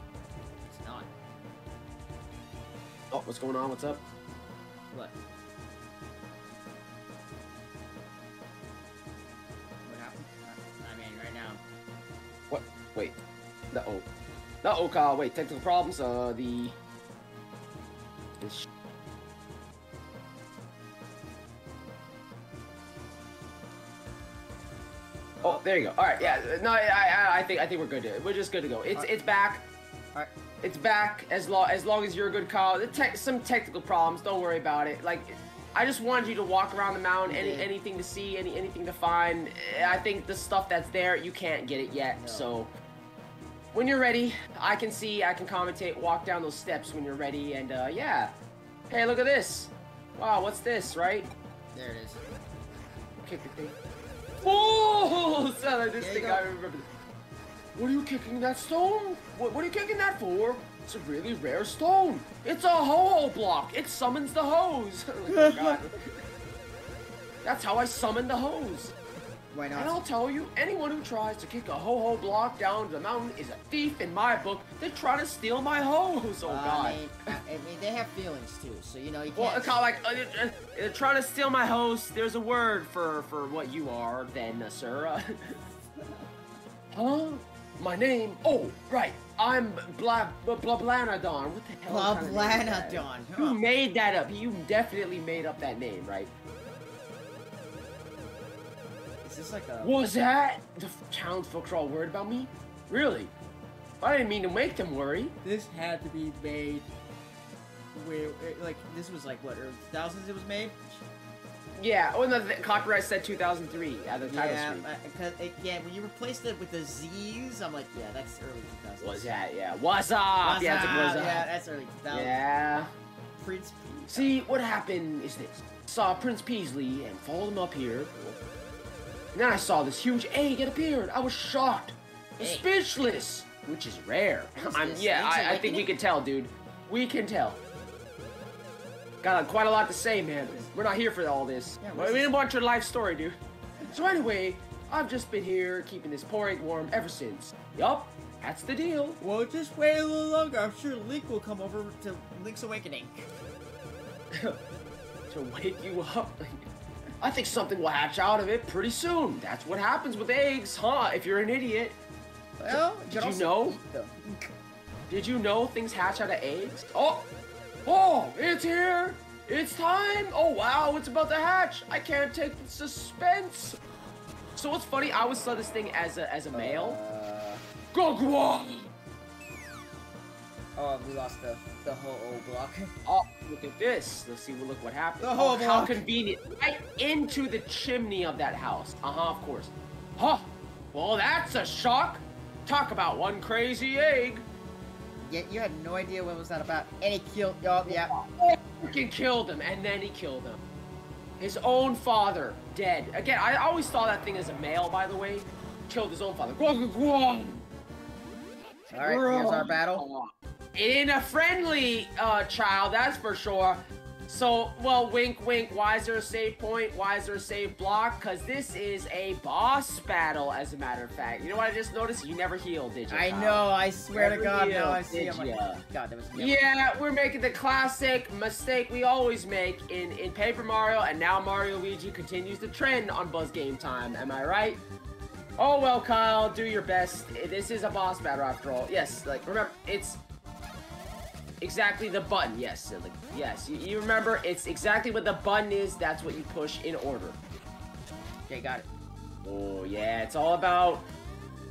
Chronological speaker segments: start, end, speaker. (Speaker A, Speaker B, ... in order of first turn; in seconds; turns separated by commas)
Speaker A: 0.6-1.1, Speaker B: 3.1-4.0, Speaker A: 9.8-11.6, Speaker B: 12.5-13.2, Speaker B: 13.7-14.1, Speaker B: 14.6-16.8, Speaker B: 18.4-18.7, Speaker A: 25.4-25.6, Speaker B: 25.4-29.6, Speaker B: 30.6-42.7, Speaker A: 37.3-37.7, Speaker A: 39.8-40.0, Speaker A: 42.2-42.5, Speaker B: 43.7-48.3, Speaker B: 48.9-51.3, Speaker A: 51.7-52.2, Speaker B: 53.2-53.8, Speaker B: 54.4-56.9, Speaker A: 56.0-56.4, Speaker B: 57.8-66.1, Speaker A: 65.3-65.8, Speaker B: 67.4-68.9, Speaker A: 69.5-70.0, Speaker B: 69.7-77.1, Speaker A: 76.4-79.8, Speaker B: 79.4-85.5, Speaker B: 86.9-96.3, Speaker A: 91.9-93.6, Speaker A: 99.2-100.0, Speaker B: 99.8-103.3, Speaker B: 104.0-105.3, Speaker A: 105.4-106.9, Speaker A: 107.9-111.0, Speaker B: 111.8-114.8, Speaker A: 114.3-119.3, Speaker B: 119.0-121.5, Speaker A: 120.4-122.4, Speaker B: 122.1-122.9, Speaker A: 123.4-124.3, Speaker B: 124.1-128.2, Speaker B: 129.3-137.6, Speaker A: 132.4-132.7, Speaker A: 134.6-135.9, Speaker B: 139.2-143.4, Speaker A: 141.8-142.3, Speaker A: 143.8-144.0, Speaker B: 143.9-149.2, Speaker A: 149.2-153.3, Speaker B: 154.3-154.6, Speaker B: 155.3-156.7, Speaker B: 157.2-162.0, Speaker A: 162.6-164.4, Speaker B: 162.7-163.8, Speaker B: 165.1-167.3, Speaker B: 167.9-173.8, Speaker B: 174.6-177.0, Speaker A: 176.5-177.6, Speaker B: 177.9-178.9, Speaker A: 180.8-182.9, Speaker B: 183.1-194.4, Speaker A: 185.2-186.0, Speaker A: 195.2-198.1, Speaker B: 197.8-200.6, Speaker B: 201.4-207.6, Speaker A: 208.9-210.1, Speaker B: 208.9-223.6, Speaker A: 223.1-226.6, Speaker B: 224.2-225.8, Speaker B: 226.3-234.8, Speaker B: 235.6-240.2, Speaker B: 241.6-247.4, Speaker A: 248.5-248.9, Speaker B: 249.4-251.1